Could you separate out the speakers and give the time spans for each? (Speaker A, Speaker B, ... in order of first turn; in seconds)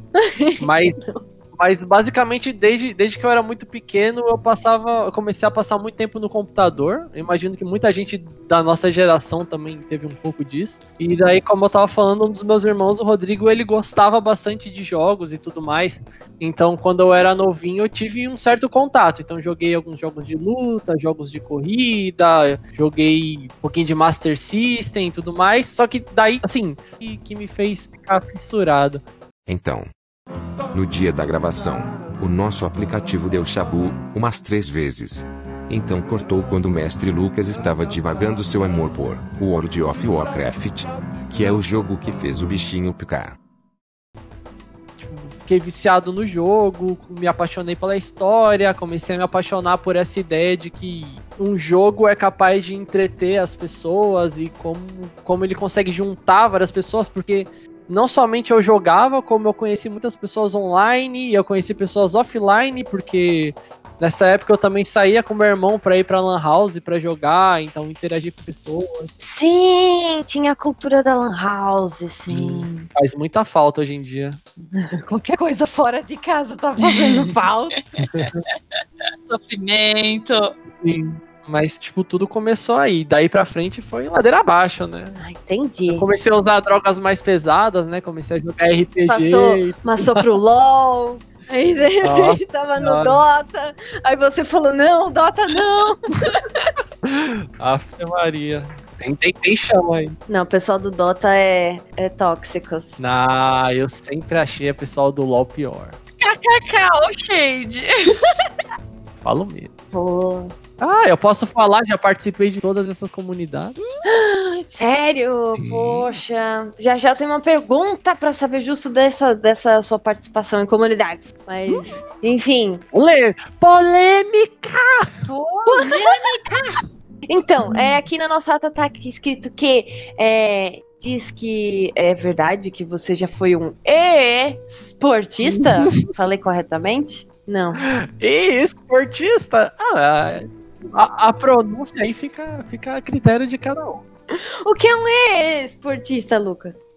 Speaker A: 0.1-1.2, 69.2-72.9, 74.7-77.8, 85.2-86.1, 89.1-96.4, 100.3-103.0, 109.9-110.6, 114.0-122.8, 125.7-126.4, 127.3-137.8, 144.3-146.8
Speaker B: 0.6-1.0, 1.6-29.0, 45.0-69.1, 72.3-74.4, 78.0-78.3, 80.8-85.2, 85.9-90.2, 92.0-93.2, 97.0-100.2, 103.0-106.0, 109.2-109.7, 110.8-113.8, 115.6-116.1, 122.9-125.3, 135.5-135.9, 137.8-144.0
Speaker C: 29.5-29.9, 30.7-43.4
Speaker D: 76.8-77.3, 78.0-78.5, 79.3-80.6, 106.2-108.2, 125.2-126.4